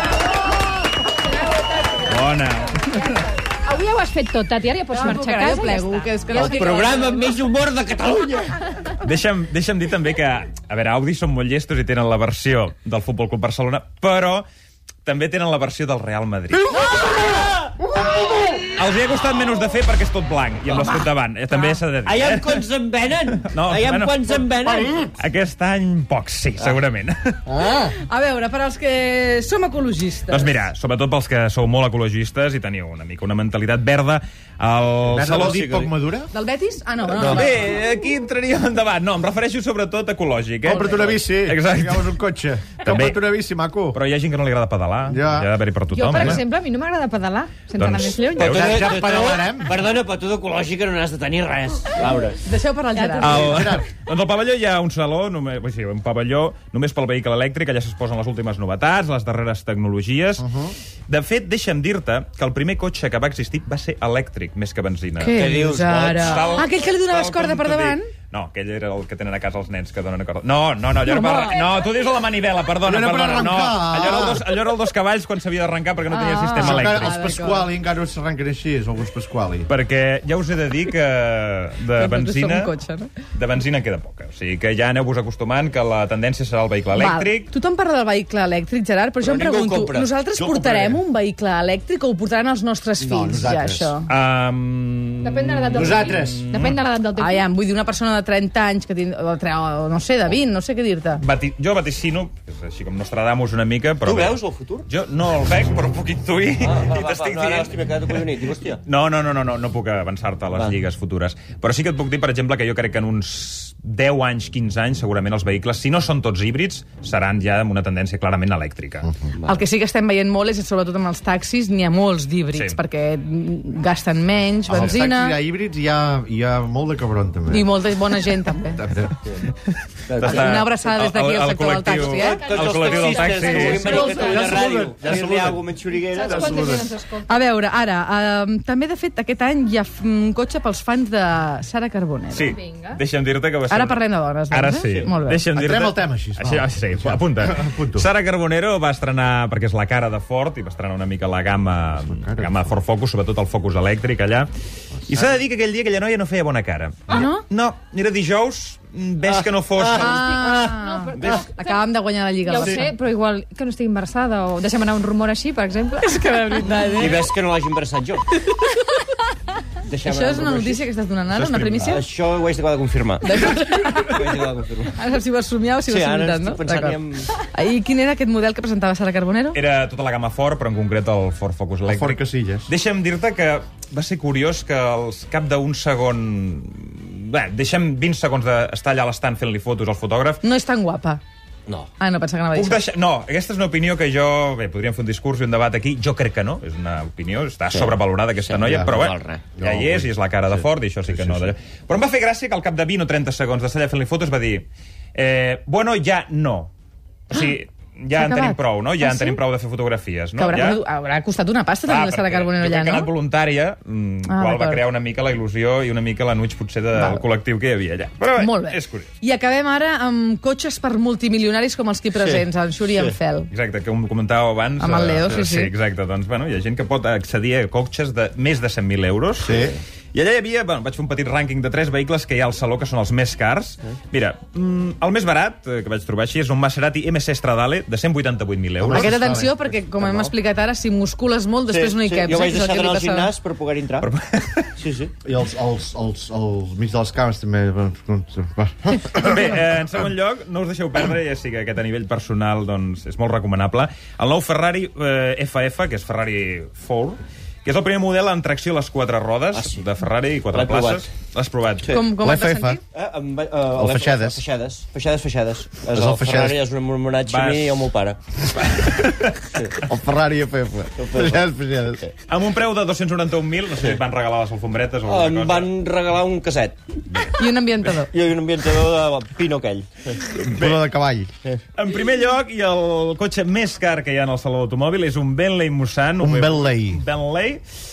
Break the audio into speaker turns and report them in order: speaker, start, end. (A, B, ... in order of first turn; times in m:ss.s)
0:02.1-0:03.1 A
0:03.6-0:07.4 B
0:04.9-0:07.1 C
0:06.3-0:08.6 D
0:09.0-0:14.4 A
0:15.0-0:16.6 A
0:16.8-0:17.8 D
0:18.7-0:22.6 A
0:20.7-0:21.1 D
0:22.0-0:25.1 D
0:23.4-0:24.6 A
0:25.2-0:27.5 A
0:28.1-0:30.6 C
0:30.3-0:35.6 A
0:35.1-0:36.3 E
0:35.3-0:35.9 D
0:36.3-0:37.6 C
0:37.2-0:37.5 D
0:37.2-0:42.2 A
0:40.6-0:44.0 E
0:40.7-0:41.0 C
0:42.8-0:43.3 A
0:43.9-0:46.4 A
0:45.1-0:45.6 E
0:45.9-0:49.2 B
0:46.1-0:46.4 E
0:47.7-0:48.7 A
0:48.4-0:49.8 E
0:48.4-0:52.4 D
0:52.4-0:53.5 C
0:52.9-0:53.8 B
0:53.2-1:00.4 A
0:53.3-0:53.9 E
1:00.4-1:00.8 E
1:01.1-1:17.2 A
1:05.2-1:08.1 C
1:05.3-1:06.6 D
1:11.1-1:11.5 C
1:12.8-1:14.5 E
1:16.1-1:17.7 C
1:16.6-1:19.7 E
1:19.7-1:22.7 A
1:21.9-1:23.1 C
1:23.3-1:27.5 A
1:26.9-1:34.1 C
1:29.2-1:30.1 D
1:30.4-1:31.0 E
1:33.0-1:34.0 E
1:34.1-1:36.8 A
1:35.2-1:37.4 B
1:35.7-1:36.5 E
1:37.2-1:41.2 C
1:41.2-1:48.2 A
1:44.0-1:44.9 D
1:46.6-1:48.8 D
1:48.8-1:59.1 A
1:50.5-1:50.8 D
1:59.4-2:05.4 C
2:02.5-2:02.8 A
2:04.7-2:07.7 E
2:07.5-2:08.8 C
2:08.8-2:09.3 E
2:10.1-2:10.7 D
2:10.1-2:14.0 A
2:10.2-2:12.4 C
2:12.1-2:16.6 D
2:12.2-2:14.6 B
2:13.7-2:16.9 E
2:15.9-2:17.4 B
2:17.2-2:22.6 C
2:22.3-2:34.5 A
2:22.4-2:23.0 B
2:23.7-2:25.4 C
2:25.6-2:28.1 E
2:32.1-2:32.7 E
2:35.1-2:40.2 A
2:37.1-2:37.4 C
2:39.2-2:41.3 D
2:39.9-2:42.9 C
2:40.2-2:41.9 B
2:42.4-2:46.6 B
2:46.0-2:47.3 C
2:46.9-2:48.2 D
2:48.3-2:49.1 C
2:49.9-2:50.8 D
2:50.0-2:52.1 C
2:51.4-2:51.9 E
2:51.8-2:53.3 D
2:53.2-2:54.3 C
2:54.0-2:54.9 D
2:54.9-2:59.6 C
2:55.9-2:57.3 D
2:59.5-3:10.4 A
3:01.8-3:02.7 E
3:10.4-3:11.2 C
3:12.0-3:12.8 C
3:12.6-3:26.7 A
3:17.7-3:19.6 D
3:19.6-3:20.1 E
3:21.0-3:21.5 E
3:27.3-3:30.8 A
3:28.1-3:29.4 C
3:30.4-3:33.1 C
3:31.8-3:39.1 A
3:34.3-3:34.8 C
3:36.9-3:37.2 C
3:38.3-3:43.5 C
3:42.2-3:43.2 D
3:43.5-3:59.2 A
3:44.8-3:45.7 C
3:49.4-3:49.8 E
3:49.5-3:49.8 D
3:58.8-3:59.5 E
3:58.9-4:03.3 C
3:59.9-4:00.3 D
4:01.7-4:04.1 D
4:04.0-4:04.7 A
4:04.8-4:05.1 D
4:05.2-4:09.4 E
4:09.1-4:22.1 A
4:19.5-4:19.8 D
4:20.5-4:21.1 D
4:21.9-4:22.8 C
4:22.1-4:22.8 E
4:22.9-4:28.2 D
4:23.7-4:24.4 E
4:25.9-4:26.6 E
4:27.2-4:27.8 A
4:28.6-4:29.4 A
4:29.5-4:29.8 D
4:29.8-4:32.1 E
4:31.0-4:31.4 D
4:32.2-4:35.7 A
4:35.0-4:36.8 D
4:37.3-4:38.1 C
4:38.1-4:40.2 D
4:40.4-4:41.3 E
4:40.4-4:40.8 A
4:41.7-4:47.6 A
4:46.2-4:47.0 E